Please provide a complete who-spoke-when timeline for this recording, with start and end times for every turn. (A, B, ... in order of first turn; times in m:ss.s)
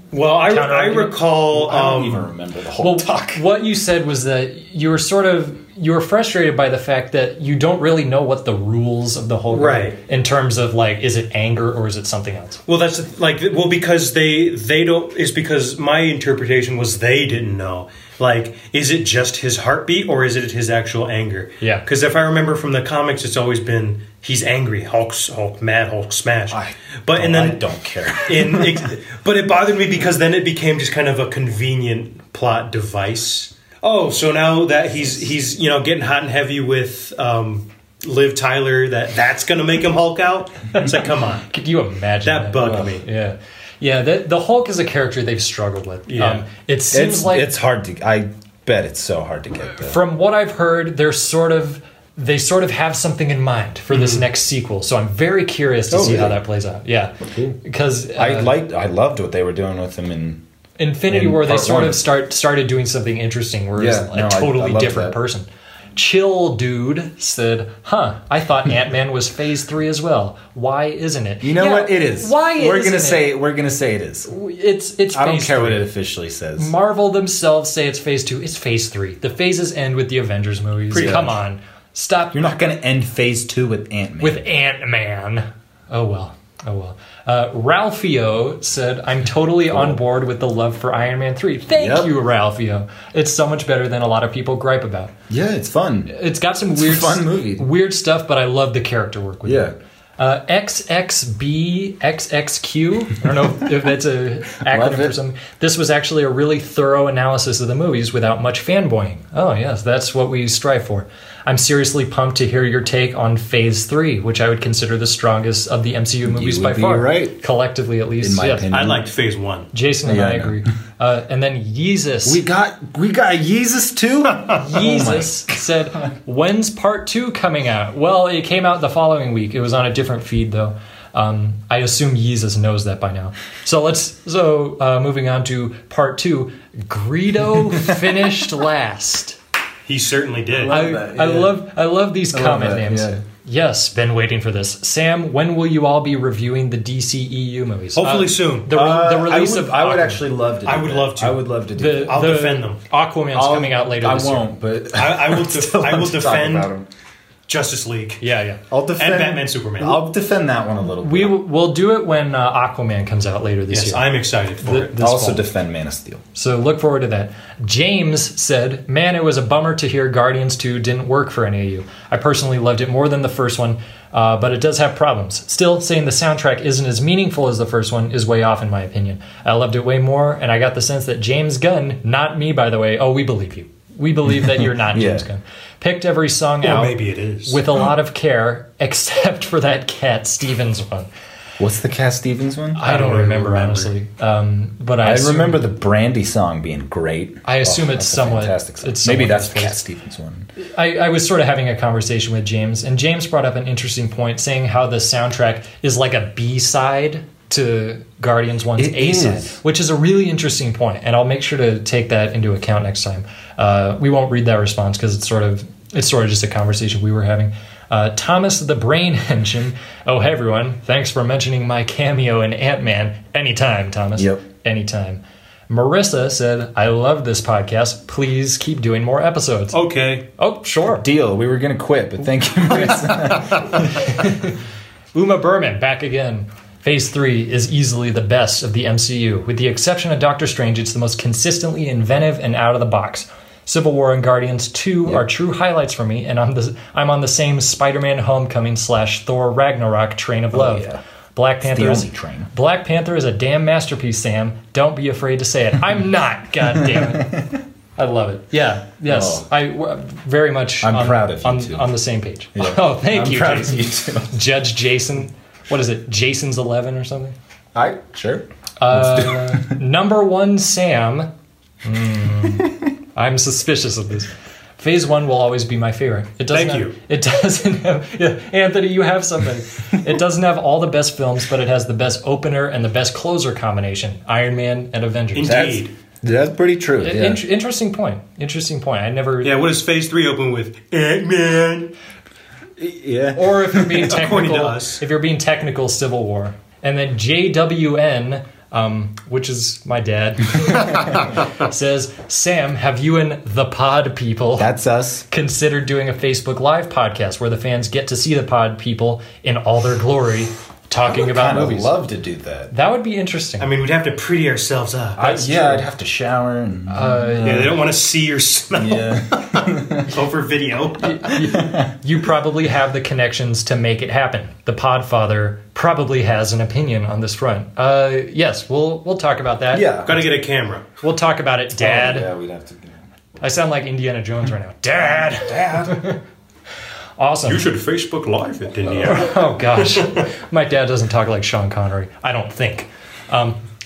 0:00.1-0:02.3 A
0:00.5-0:01.2 B
0:01.5-0:03.4 C
0:02.8-0:12.6 B
0:09.5-0:10.0 A
0:12.7-0:27.6 A
0:26.5-0:28.9 C
0:28.2-0:41.5 A
0:41.5-0:47.5 B
0:42.2-0:43.0 A
0:42.6-0:42.9 C
0:46.1-0:46.4 A
0:46.9-0:50.0 C
0:49.8-0:58.5 B
0:53.9-0:54.2 A
0:55.9-0:56.4 C
0:57.2-0:57.6 C
0:58.2-1:00.4 C
1:00.8-1:13.3 B
1:01.1-1:02.0 C
1:03.8-1:05.2 C
1:11.4-1:14.3 C
1:14.3-1:15.8 B
1:15.1-1:16.7 C
1:16.6-1:22.4 B
1:20.9-1:21.4 C
1:22.3-1:24.4 C
1:24.2-1:35.1 B
1:29.7-1:30.0 C
1:31.7-1:32.1 C
1:35.3-1:36.1 C
1:36.1-1:58.7 B
1:36.8-1:37.7 C
1:39.4-1:39.7 C
1:44.7-1:45.2 C
1:56.2-1:57.4 C
1:58.2-1:59.1 C
1:58.7-1:59.7 A
1:59.7-2:02.4 B
2:00.0-2:00.7 C
2:02.2-2:05.6 C
2:04.6-2:19.4 B
2:19.9-2:20.8 A
2:20.5-2:21.6 C
2:20.7-2:30.2 B
2:22.3-2:23.2 C
2:28.0-2:28.7 A
2:28.7-2:32.3 C
2:30.7-2:31.5 A
2:31.8-2:34.5 B
2:32.1-2:32.8 A
2:33.4-2:36.9 C
2:35.0-2:36.7 A
2:37.5-2:38.2 A
2:38.2-2:38.6 B
2:38.7-2:41.4 C
2:39.0-2:40.0 A
2:41.0-2:45.4 B
2:43.7-2:44.9 A
2:45.0-2:46.2 C
2:46.4-3:11.1 B
3:04.9-3:05.2 C
3:06.6-3:07.6 A
3:11.6-3:12.8 C
3:12.8-3:15.6 B
3:12.8-3:13.9 A
3:15.0-3:20.5 C
3:17.4-3:19.8 B
3:20.6-3:49.8 B
3:28.8-3:29.6 C
3:44.2-3:44.4 C
3:49.7-3:50.2 A
3:50.4-3:51.0 B
3:50.9-3:54.3 C
3:52.9-3:54.6 B
3:55.1-4:27.4 B
4:10.5-4:11.0 C
4:11.6-4:12.5 C
4:16.7-4:17.5 C
4:19.1-4:19.5 C
4:20.8-4:22.0 C
4:22.6-4:24.4 C
4:27.8-4:29.7 C
4:28.8-4:31.3 B
4:31.8-4:45.6 B
4:36.5-4:37.0 A
4:45.4-4:45.9 A
4:45.4-4:47.4 C
4:47.0-4:49.6 B
4:49.4-4:51.9 A
4:52.8-4:54.2 C
4:53.4-5:04.7 B
4:54.0-4:55.0 A
5:04.6-5:05.2 C
5:05.3-5:11.9 B
5:11.1-5:12.7 C
5:12.7-5:13.7 B
5:13.6-5:15.3 A
5:15.2-5:17.8 C
5:15.2-5:15.8 B
5:16.9-5:17.7 B
5:17.4-5:21.2 A
5:18.8-5:20.2 C
5:21.0-5:29.9 B
5:21.3-5:21.9 C
5:29.7-5:30.1 C
5:30.1-5:30.9 A
5:31.0-5:32.3 B
5:31.8-5:33.0 C
5:33.4-5:36.2 B
5:35.1-5:36.0 C
5:37.2-5:37.7 B
5:37.5-5:39.3 A
5:39.0-5:43.6 B
5:40.0-5:40.2 A